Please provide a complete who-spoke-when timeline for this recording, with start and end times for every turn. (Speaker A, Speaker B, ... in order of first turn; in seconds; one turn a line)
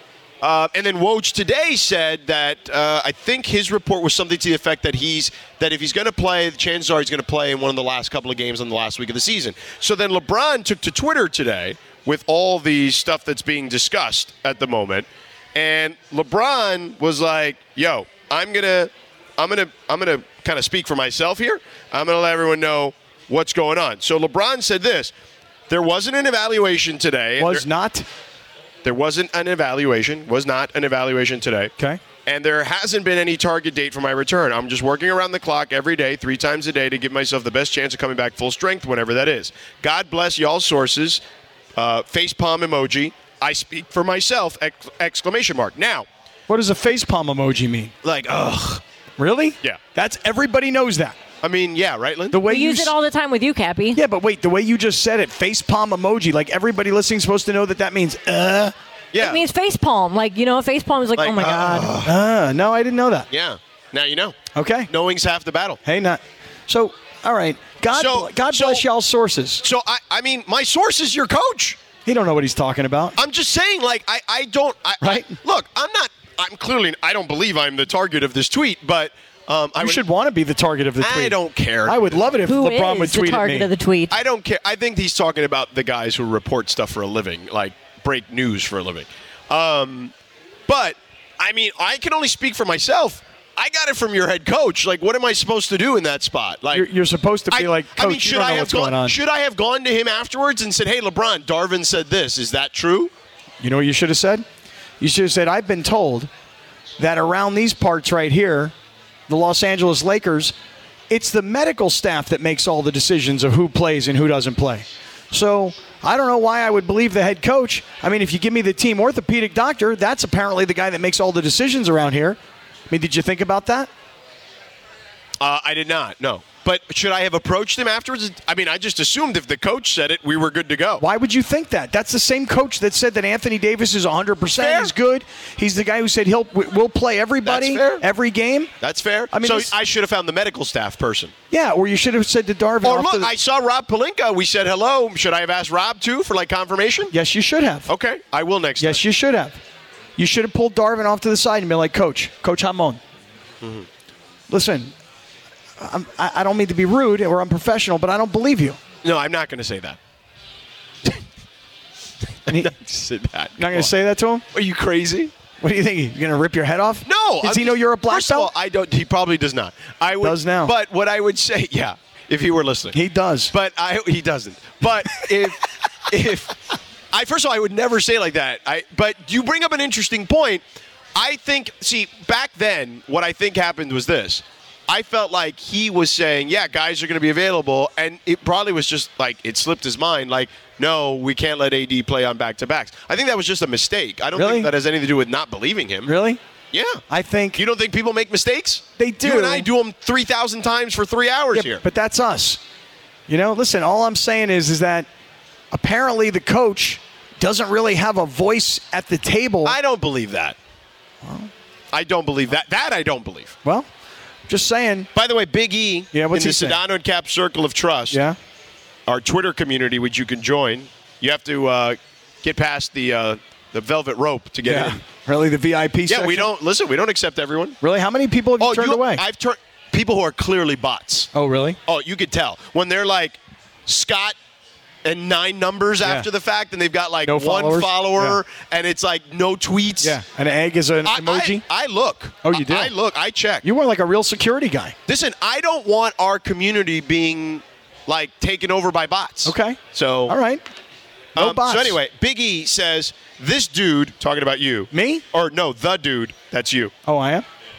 Speaker A: 0.4-25.1
Speaker A: 25.7-27.6
Speaker B: 27.4-28.1
Speaker A: 28.8-31.7
Speaker A: 32.3-41.2
Speaker A: 41.8-46.1
Speaker B: 46.5-47.9
Speaker A: 48.0-48.8
Speaker B: 49.2-51.2
Speaker A: 51.4-52.4
Speaker B: 52.3-52.9
Speaker C: 52.4-54.0
Speaker B: 54.0-58.7
Speaker A: 59.1-59.4
Speaker C: 59.2-61.9
Speaker A: 61.2-62.1
Speaker B: 62.0-63.3
Speaker A: 63.3-65.8
Speaker B: 64.5-64.9
Speaker B: 65.8-69.6
Speaker A: 67.9-68.8
Speaker A: 69.6-71.8
Speaker B: 72.1-73.2
Speaker A: 73.2-80.0
Speaker B: 75.0-75.3
Speaker B: 79.8-83.7
Speaker A: 81.0-82.3
Speaker C: 82.5-84.2
Speaker A: 84.1-90.1
Speaker A: 90.7-96.9
Speaker B: 96.7-99.2
Speaker A: 97.5-103.1
Speaker B: 103.6-104.5
Speaker B: 105.0-106.3
Speaker B: 107.0-108.7
Speaker B: 109.3-110.5
Speaker B: 111.1-122.4
Speaker B: 122.9-123.9
Speaker A: 125.4-131.0
Speaker B: 131.0-138.7
Speaker A: 134.6-134.9
Speaker A: 137.5-138.1
Speaker A: 138.8-141.3
Speaker B: 139.3-139.7
Speaker B: 141.5-143.3
Speaker A: 142.8-147.1
Speaker B: 147.1-147.9
Speaker A: 147.9-149.0
Speaker B: 148.8-149.6
Speaker B: 150.2-153.0
Speaker B: 154.5-154.9
Speaker B: 155.8-158.8
Speaker A: 159.0-160.0
Speaker A: 162.5-163.9
Speaker B: 162.5-162.7
Speaker B: 163.6-164.4
Speaker A: 164.5-165.3
Speaker B: 165.6-168.5
Speaker A: 167.1-173.0
Speaker B: 170.2-170.7
Speaker B: 172.9-173.5
Speaker A: 173.5-176.6
Speaker A: 177.1-180.6
Speaker A: 181.2-196.1
Speaker B: 194.4-194.7
Speaker B: 196.1-196.4
Speaker A: 196.7-197.0
Speaker B: 197.1-197.6
Speaker A: 197.6-201.8
Speaker B: 199.0-199.7
Speaker B: 201.5-202.6
Speaker B: 203.3-205.1
Speaker B: 205.7-209.8
Speaker A: 209.7-210.6
Speaker B: 211.2-211.5
Speaker A: 211.9-213.6
Speaker B: 214.5-215.1
Speaker A: 215.2-218.2
Speaker B: 216.1-216.8
Speaker B: 218.1-218.4
Speaker A: 219.1-225.0
Speaker B: 224.7-226.5
Speaker A: 226.1-227.8
Speaker B: 227.8-229.2
Speaker A: 228.6-231.3
Speaker B: 231.3-231.8
Speaker A: 231.9-234.3
Speaker A: 235.1-240.2
Speaker B: 237.2-238.4
Speaker B: 240.0-241.6
Speaker A: 241.1-243.6
Speaker B: 242.4-242.9
Speaker B: 243.6-245.0
Speaker A: 245.1-250.3
Speaker B: 249.4-250.6
Speaker A: 251.4-256.9
Speaker B: 251.4-252.0
Speaker B: 254.9-255.2
Speaker B: 257.1-257.4